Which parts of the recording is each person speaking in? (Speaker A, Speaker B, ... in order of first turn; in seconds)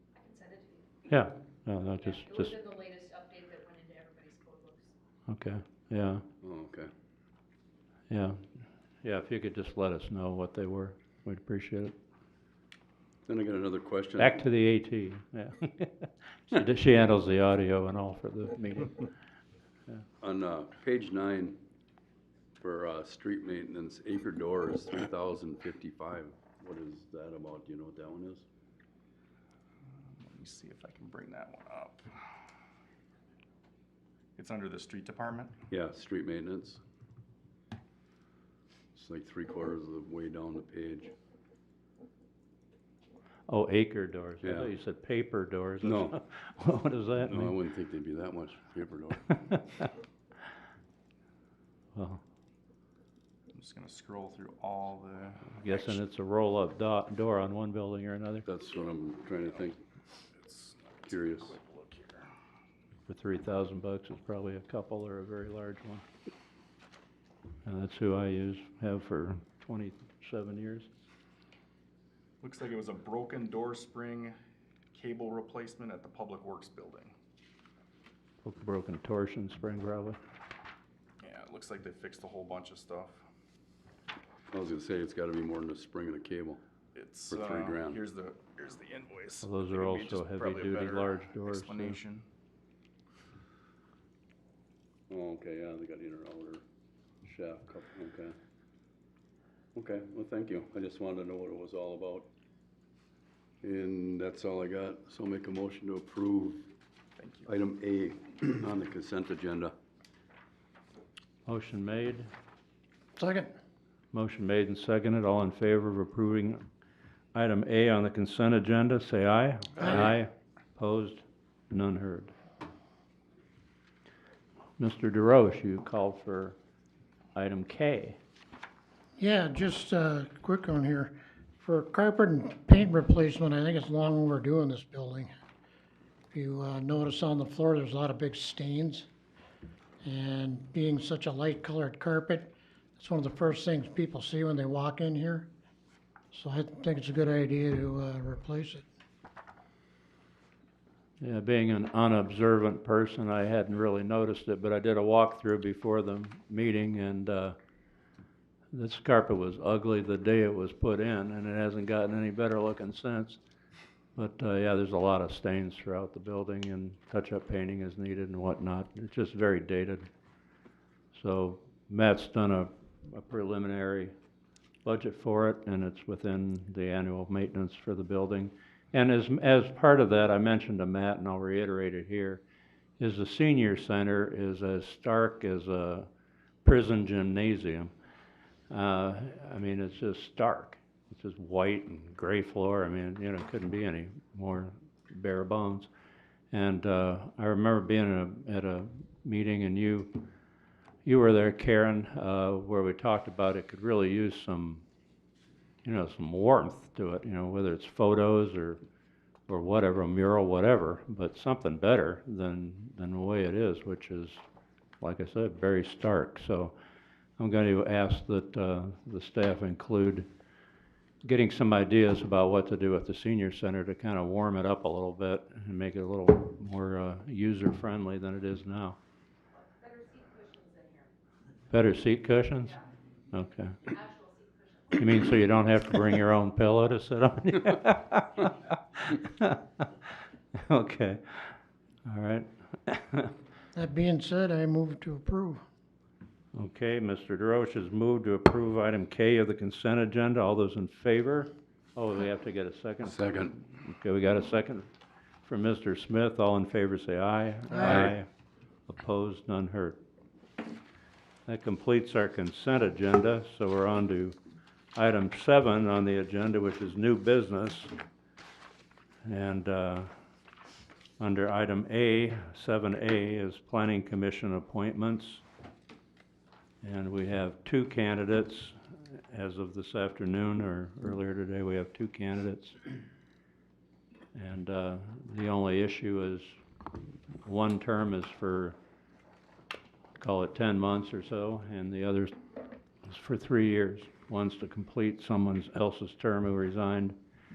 Speaker A: 0.1-0.9, 2.1-4.9, 229.5-231.1, 233.9-235.0
Speaker B: 1.1-2.5, 5.3-6.2, 8.1-8.5, 9.0-11.9, 14.2-19.1, 43.5-47.5, 52.0-52.2, 55.5-58.5, 63.1-66.0, 67.7-70.9, 78.4-80.2, 89.4-92.0, 111.5-112.3, 114.1-116.7, 117.3-122.3, 124.8-126.6, 127.3-128.2, 151.2-157.6, 158.7-163.4, 164.2-170.1, 171.1-174.1, 174.8-182.4, 183.0-186.1, 186.6-187.9, 188.7-195.9, 196.5-200.2, 201.1-204.8, 205.8-208.8, 209.5-214.4, 215.0-216.8, 217.4-220.3, 221.2-229.0, 231.7-232.8, 233.3-233.9, 234.9-239.9, 240.5-243.3, 246.5-254.9, 255.4-258.3, 258.9-260.0, 261.5-264.4, 264.9-267.9, 269.2-270.1, 271.2-275.4, 276.8-282.8, 284.3-286.6, 287.4-288.8, 290.2-292.4, 293.0-297.1
Speaker C: 6.4-6.9, 13.2-14.4, 20.2-21.6, 22.6-28.4, 35.7-36.8, 38.9-41.1, 44.4-44.7, 45.8-46.2, 47.2-49.8, 58.5-59.8, 61.1-61.6, 84.5-86.6, 87.3-88.0, 95.1-96.6, 97.2-98.4, 99.8-102.3, 103.6-106.7, 107.5-109.7, 253.1-253.5
Speaker D: 29.8-32.2, 34.4-35.5, 53.5-56.0, 60.3-62.3, 72.4-74.3, 74.9-77.1, 81.2-83.2, 86.9-92.3, 107.2-107.5
Speaker E: 113.2-113.5, 129.2-135.3, 136.3-139.1, 140.0-145.5, 146.3-148.8, 243.7-245.6